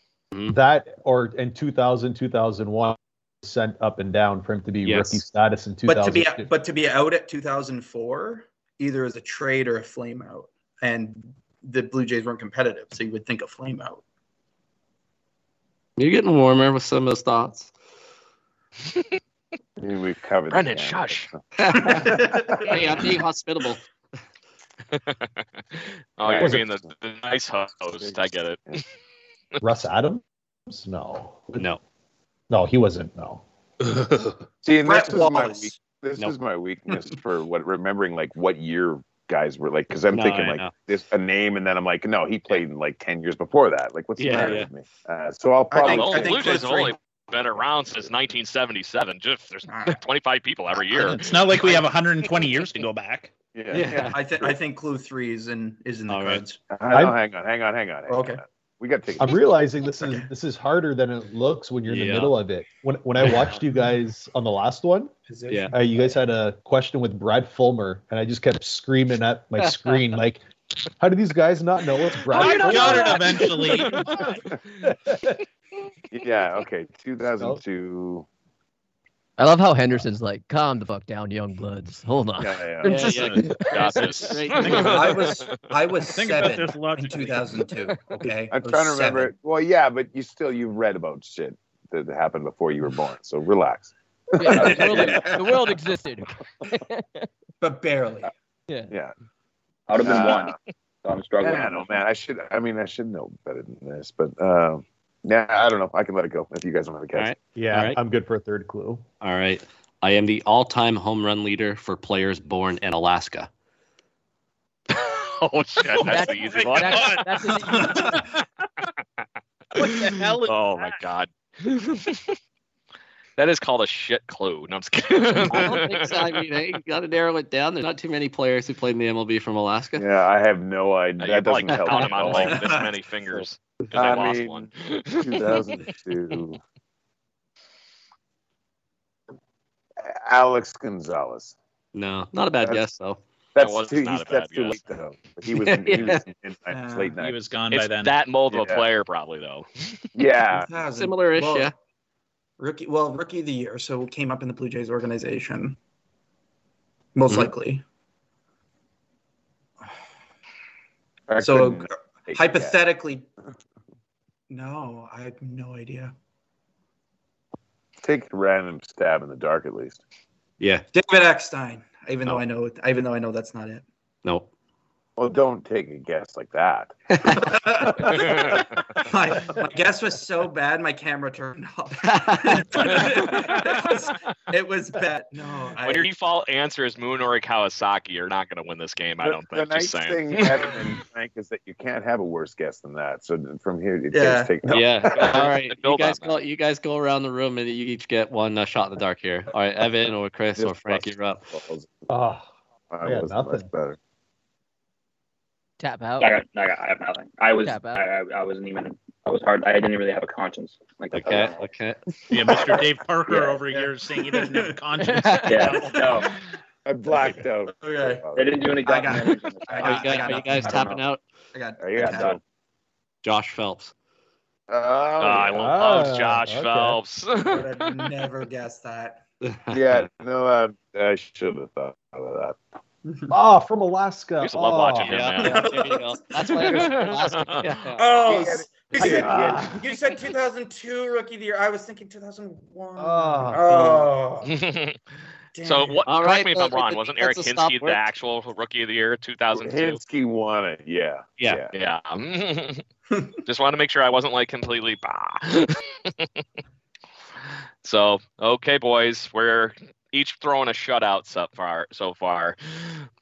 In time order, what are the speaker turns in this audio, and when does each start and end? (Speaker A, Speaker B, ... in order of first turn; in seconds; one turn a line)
Speaker A: 0.3-0.6
Speaker B: 0.5-6.5
Speaker A: 4.8-5.2
Speaker C: 5.8-14.0
Speaker A: 16.0-17.7
Speaker D: 19.8-23.1
Speaker E: 20.5-21.3
Speaker A: 21.6-23.8
Speaker C: 21.8-23.1
Speaker E: 25.8-28.8
Speaker D: 26.2-26.6
Speaker B: 26.4-26.6
Speaker D: 28.0-28.8
Speaker B: 29.6-31.7
Speaker B: 32.5-33.4
Speaker D: 34.6-46.6
Speaker C: 34.8-35.8
Speaker A: 40.1-40.7
Speaker A: 44.2-44.7
Speaker C: 45.7-47.0
Speaker E: 45.8-51.8
Speaker C: 49.7-50.0
Speaker F: 50.9-53.3
Speaker D: 53.5-54.6
Speaker A: 53.7-54.2
Speaker C: 54.1-56.6
Speaker A: 56.1-56.5
Speaker D: 56.7-59.4
Speaker B: 56.9-57.2
Speaker C: 58.1-58.4
Speaker B: 59.2-65.1
Speaker A: 61.9-62.4
Speaker A: 63.2-63.6
Speaker C: 65.3-65.9
Speaker A: 65.5-65.7
Speaker B: 65.7-70.4
Speaker A: 69.6-70.0
Speaker B: 71.0-74.3
Speaker F: 72.3-74.1
Speaker E: 72.3-74.3
Speaker B: 74.8-75.4
Speaker D: 76.1-78.3
Speaker G: 79.4-84.3
Speaker D: 82.4-83.3
Speaker A: 82.8-83.5
Speaker E: 83.6-85.6
Speaker A: 84.2-85.1
Speaker F: 84.6-85.3
Speaker C: 84.7-89.3
Speaker F: 86.0-87.7
Speaker D: 88.5-93.9
Speaker G: 94.4-97.3
Speaker C: 94.4-95.6
Speaker H: 94.5-95.3
Speaker D: 94.6-95.1
Speaker C: 97.6-98.3
Speaker H: 99.9-102.0
Speaker D: 100.0-100.5
Speaker D: 101.4-107.3
Speaker A: 107.1-108.0
Speaker B: 107.5-109.0
Speaker A: 109.2-113.5
Speaker E: 114.9-117.2
Speaker F: 116.0-117.4
Speaker G: 116.0-118.2
Speaker C: 117.7-118.3
Speaker F: 119.7-121.0
Speaker E: 119.8-122.4
Speaker E: 123.4-126.4
Speaker A: 125.5-130.1
Speaker D: 130.0-132.6
Speaker E: 131.2-135.8
Speaker A: 131.7-132.6
Speaker C: 132.3-132.9
Speaker D: 133.9-136.6
Speaker D: 140.0-141.6
Speaker A: 141.9-143.2
Speaker D: 142.6-142.9
Speaker D: 143.6-147.4
Speaker E: 143.6-144.8
Speaker A: 145.5-146.3
Speaker C: 146.7-147.2
Speaker F: 147.2-148.1
Speaker E: 147.7-149.7
Speaker D: 148.5-148.8
Speaker D: 150.2-150.7
Speaker C: 150.5-151.7
Speaker A: 150.9-151.7
Speaker C: 152.6-155.8
Speaker C: 157.2-157.8
Speaker D: 161.3-162.8
Speaker C: 161.4-163.3
Speaker C: 164.5-166.1
Speaker D: 168.0-170.0
Speaker A: 170.6-170.8
Speaker C: 170.9-173.8
Speaker A: 174.2-174.5
Speaker D: 175.2-178.7
Speaker A: 177.2-177.5
Speaker C: 177.3-186.1
Speaker E: 178.2-178.6
Speaker A: 182.0-183.3
Speaker E: 185.8-190.8
Speaker D: 189.2-195.5
Speaker C: 194.1-194.5
Speaker A: 194.7-201.5
Speaker E: 195.1-196.4
Speaker D: 200.6-202.0
Speaker B: 202.1-202.5
Speaker D: 202.9-204.0
Speaker B: 203.0-203.7
Speaker G: 205.8-206.3
Speaker H: 206.2-211.7
Speaker G: 207.6-208.1
Speaker A: 211.1-212.5
Speaker F: 212.3-216.0
Speaker C: 212.7-214.8
Speaker G: 215.0-215.4
Speaker H: 215.4-216.3
Speaker C: 215.7-216.4
Speaker D: 216.8-218.7
Speaker C: 217.8-221.0
Speaker H: 218.3-221.0
Speaker A: 219.8-221.2
Speaker C: 221.5-222.4
Speaker D: 221.8-222.4
Speaker H: 222.0-222.4
Speaker A: 223.2-223.9
Speaker D: 224.7-225.8
Speaker E: 225.2-228.1
Speaker B: 225.5-227.0
Speaker C: 227.4-229.2
Speaker A: 229.4-230.1
Speaker D: 229.7-232.6
Speaker B: 233.3-235.2
Speaker E: 234.4-235.7
Speaker A: 235.0-238.2
Speaker C: 235.4-236.9
Speaker E: 236.6-237.8
Speaker C: 237.8-244.6
Speaker D: 238.2-239.8
Speaker B: 239.0-239.8
Speaker A: 239.0-239.6
Speaker B: 243.0-243.8
Speaker E: 244.4-245.0
Speaker C: 245.6-246.0
Speaker E: 245.6-250.0
Speaker A: 246.1-248.1
Speaker D: 249.5-251.7
Speaker A: 251.4-251.6
Speaker E: 251.7-252.8
Speaker E: 253.4-256.3
Speaker E: 257.8-263.1